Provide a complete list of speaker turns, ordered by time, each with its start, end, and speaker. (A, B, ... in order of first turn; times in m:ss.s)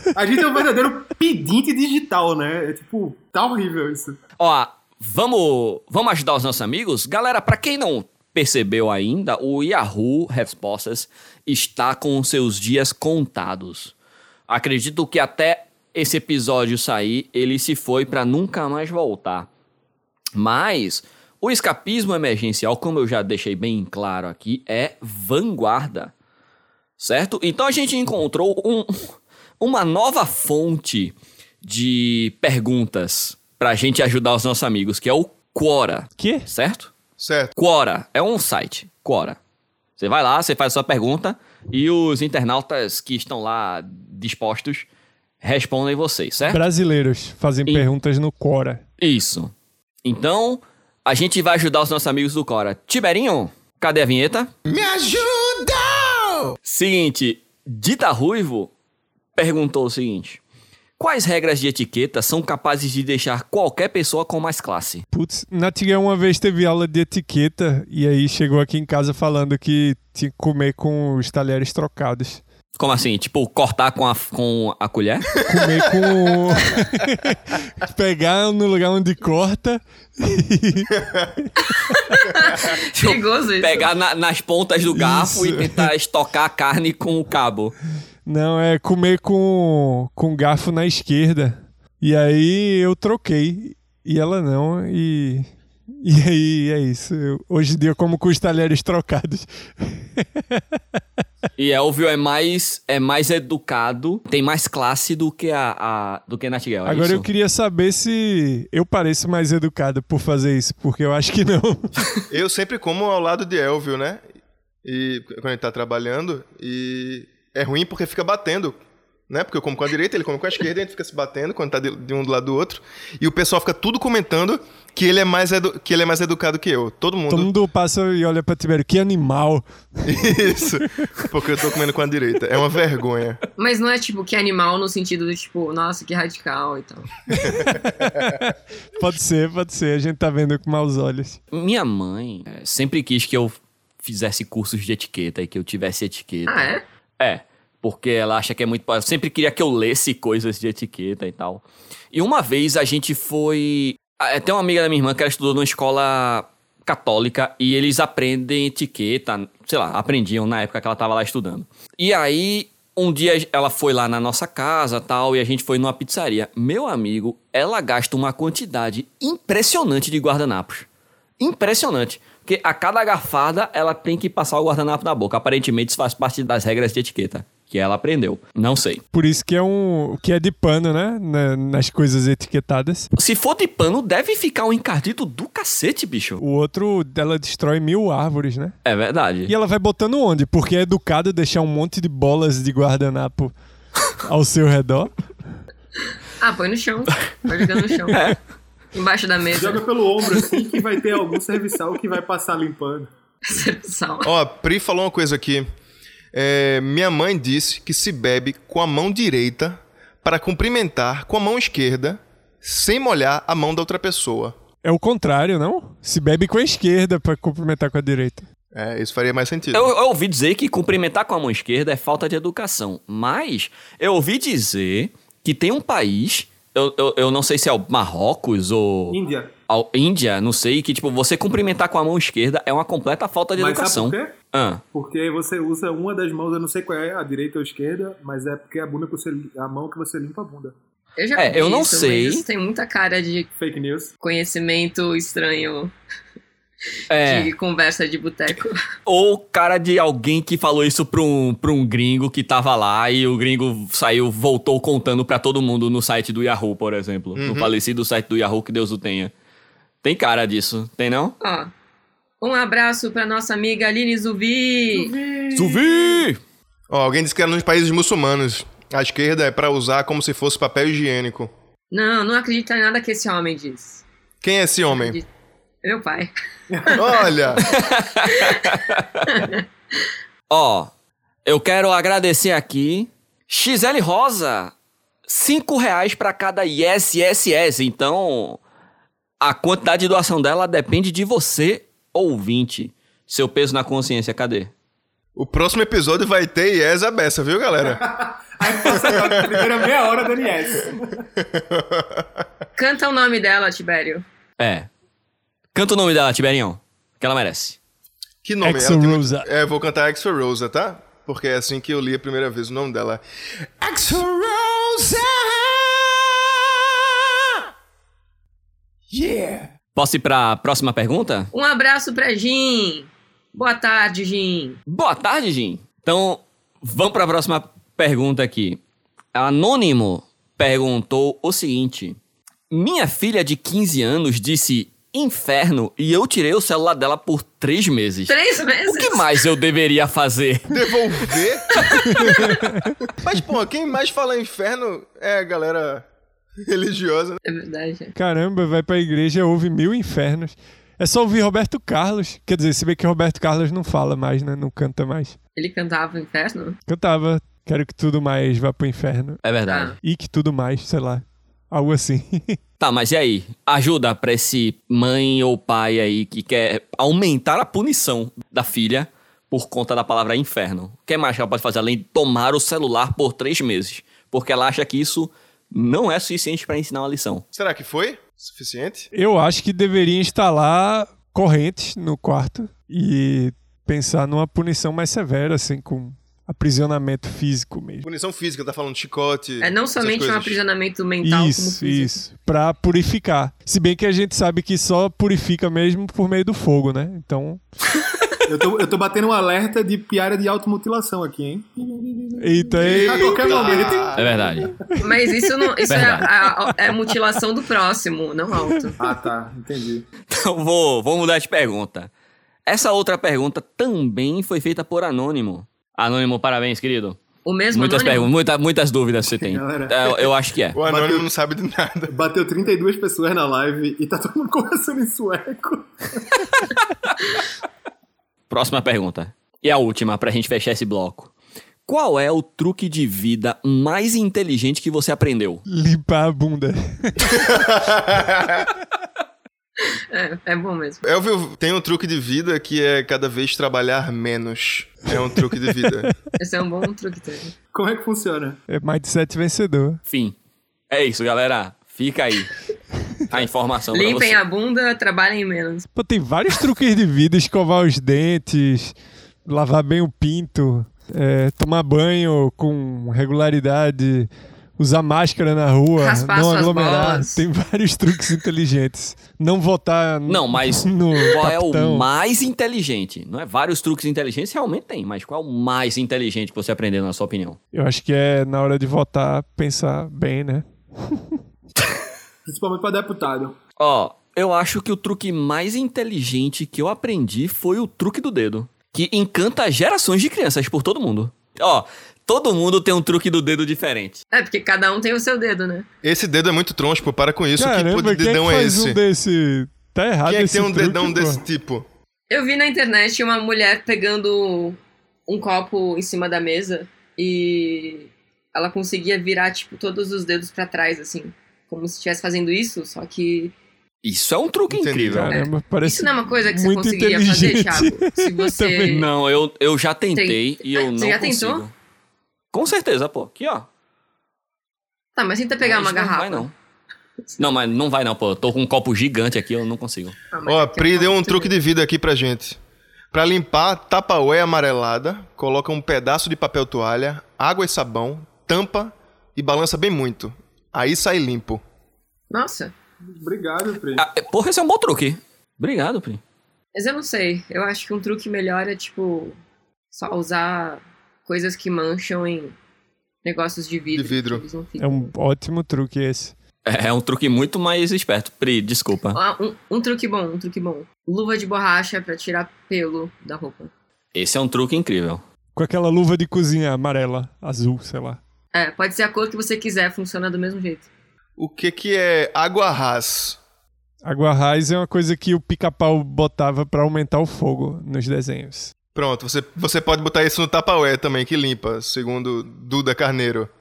0:00.1-0:04.2 A
0:04.4-0:13.9 B
0:14.5-0:19.5 B
0:20.3-0:26.1 B
0:27.0-0:36.9 B
0:36.2-0:36.5 C
0:37.2-0:37.5 D
0:37.6-0:39.4 B
0:40.0-0:44.9 B
0:45.4-0:46.6 B
0:46.5-0:48.8 C
0:49.0-0:49.5 B
0:50.0-0:54.5 B
0:54.6-0:56.5 D
0:56.6-0:58.7 B
0:59.4-1:00.4 B
1:01.0-1:05.0 B
1:05.1-1:12.4 C
1:12.7-1:15.3 B
1:15.4-1:22.2 C
1:21.0-1:21.2 D
1:22.0-1:23.9 E
1:22.6-1:27.7 B
1:24.9-1:25.9 C
1:28.2-1:35.5 C
1:36.0-1:41.0 C
1:41.6-1:47.3 B
1:46.8-1:52.1 C
1:52.3-1:54.2 D
1:54.8-2:07.5 D
2:07.3-2:10.5 C
2:10.0-2:13.4 D
2:13.6-2:17.2 E
2:17.3-2:21.4 C
2:21.5-2:26.7 B
2:26.5-2:26.8 E
2:27.2-2:50.9 B
2:51.4-2:59.0 B
2:59.1-3:03.1 C
3:03.1-3:06.4 B
3:06.4-3:08.8 C
3:08.8-3:09.5 B
3:09.5-3:13.5 C
3:14.2-3:15.1 C
3:16.4-3:18.3 E
3:18.1-3:18.4 B
3:18.9-3:19.8 E
3:19.5-3:23.1 A
3:23.4-3:24.3 E
3:24.2-3:25.6 D
3:26.3-3:34.5 D
3:34.8-3:38.4 C
3:38.7-3:39.9 D
3:39.7-3:49.2 B
3:49.1-3:49.5 A
3:49.7-3:54.8 B
3:53.6-3:54.3 A
3:54.9-4:00.7 A
4:01.2-4:03.5 E
4:01.4-4:02.4 B
4:03.6-4:04.1 A
4:04.2-4:05.9 E
4:07.1-4:07.5 B
4:07.2-4:08.8 E
4:09.0-4:19.3 B
4:17.4-4:17.7 D
4:20.0-4:21.3 B
4:21.4-4:21.7 E
4:22.4-4:25.1 E
4:24.9-4:26.0 A
4:25.5-4:26.4 B
4:26.9-4:31.5 D
4:31.9-4:34.0 E
4:34.4-4:35.2 D
4:34.9-4:35.2 E
4:35.8-4:36.3 E
4:36.7-4:37.1 A
4:36.9-4:37.6 D
4:37.6-4:39.3 B
4:38.2-4:39.6 E
4:40.5-4:40.9 B
4:41.4-4:44.7 B
4:45.2-4:48.6 B
4:49.4-4:54.7 B
4:55.4-4:58.0 D
4:57.9-5:01.2 A
4:58.8-4:59.6 D
5:01.4-5:02.2 D
5:02.8-5:04.2 E
5:04.6-5:04.9 B
5:05.7-5:07.8 B
5:08.4-5:13.2 D
5:08.6-5:09.5 C
5:13.8-5:16.2 D
5:19.1-5:19.7 D
5:19.9-5:21.5 B
5:21.5-5:24.8 E
5:24.9-5:28.8 B
5:29.3-5:32.2 B
5:32.7-5:40.8 B
5:38.3-5:39.3 E
5:40.7-5:41.7 D
5:41.7-5:42.3 E
5:42.2-5:42.9 C
5:43.1-5:46.0 D
5:46.6-5:47.4 D
5:47.4-5:48.1 E
5:48.1-5:55.4 C
5:55.6-5:56.8 E
5:56.8-5:59.4 C
5:59.4-5:59.9 B
5:59.7-6:00.0 E
6:00.0-6:02.6 C
6:02.8-6:17.4 B
6:17.5-6:19.1 D
6:19.1-6:28.0 C
6:28.0-6:30.6 D
6:29.6-6:32.2 E
6:31.2-6:37.6 C
6:38.4-6:44.7 A
6:42.4-6:44.2 C
6:42.8-6:44.2 D
6:44.1-6:44.8 B
6:45.0-6:49.0 E
6:45.3-6:46.3 C
6:45.9-6:46.3 B
6:49.0-6:50.0 A
6:50.3-6:52.1 B
6:52.6-6:57.2 B
6:57.4-6:58.3 E
6:57.7-7:00.8 B
6:59.4-7:00.2 A
7:00.7-7:02.1 D
7:00.8-7:01.2 A
7:02.1-7:06.5 A
7:08.5-7:11.3 B
7:11.9-7:15.6 B
7:15.7-7:17.6 C
7:17.3-7:18.7 D
7:20.1-7:21.0 E
7:21.0-7:26.1 D
7:25.8-7:26.1 C
7:26.4-7:27.5 E
7:27.7-7:28.6 A
7:28.7-7:30.0 C
7:30.1-7:30.4 B
7:30.9-7:32.5 B
7:33.3-7:34.4 B
7:33.9-7:35.9 E
7:35.9-7:38.9 C
7:39.4-7:52.0 C
7:46.0-7:47.4 E
7:50.3-7:57.6 B
7:57.7-8:01.4 C
8:02.4-8:03.6 A
8:03.8-8:14.2 B
8:14.3-8:15.9 E
8:16.0-8:19.0 D
8:17.6-8:21.4 C
8:20.2-8:21.8 D
8:22.3-8:33.5 E
8:34.0-8:35.4 B
8:34.7-8:35.3 D
8:35.1-8:38.9 C
8:35.3-8:39.1 E
8:38.8-8:41.7 B
8:40.1-8:41.6 E
8:42.5-8:43.7 B
8:45.2-8:46.5 E
8:45.6-8:46.5 B
8:47.4-8:50.2 B
8:50.3-8:51.5 E
8:50.5-8:52.6 D
8:53.1-9:01.6 D
9:02.3-9:02.7 E
9:03.1-9:04.0 A
9:04.0-9:06.2 B
9:06.7-9:09.3 E
9:09.9-9:12.5 E
9:13.2-9:15.1 E
9:13.9-9:14.4 D
9:14.8-9:16.3 C
9:16.6-9:19.2 B
9:19.1-9:23.7 E
9:24.1-9:25.2 B
9:25.6-9:28.2 C
9:28.5-9:30.9 E
9:31.4-9:33.4 D
9:34.0-9:38.7 C
9:38.9-9:43.5 D